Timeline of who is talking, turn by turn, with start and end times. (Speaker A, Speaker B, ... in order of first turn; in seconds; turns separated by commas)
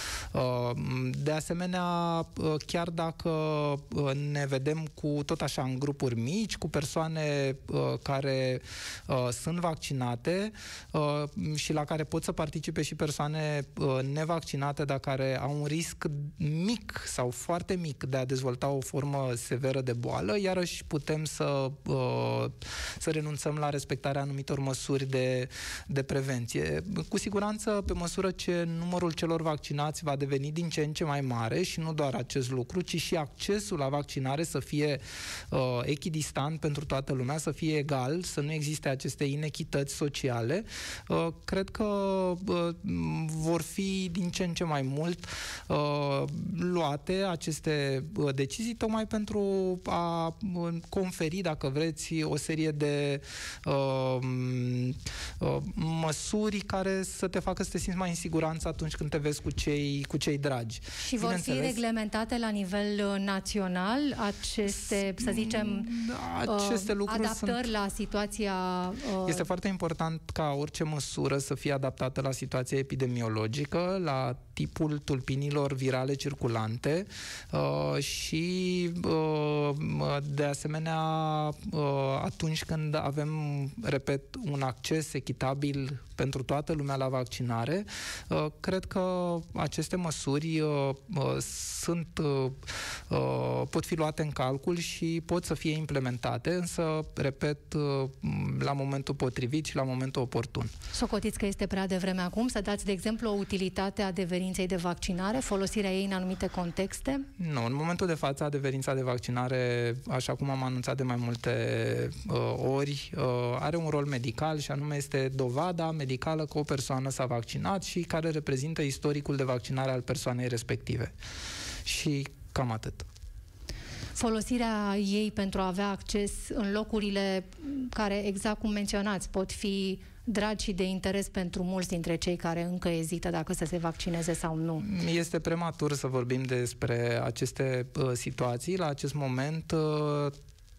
Speaker A: 0.3-61.8, Speaker B: 61.0-69.4, Speaker A: 64.8-67.7, Speaker A: 69.2-100.7, Speaker B: 100.9-107.3, Speaker A: 107.4-121.1, Speaker A: 121.8-123.0, Speaker B: 124.1-134.8, Speaker A: 134.8-140.3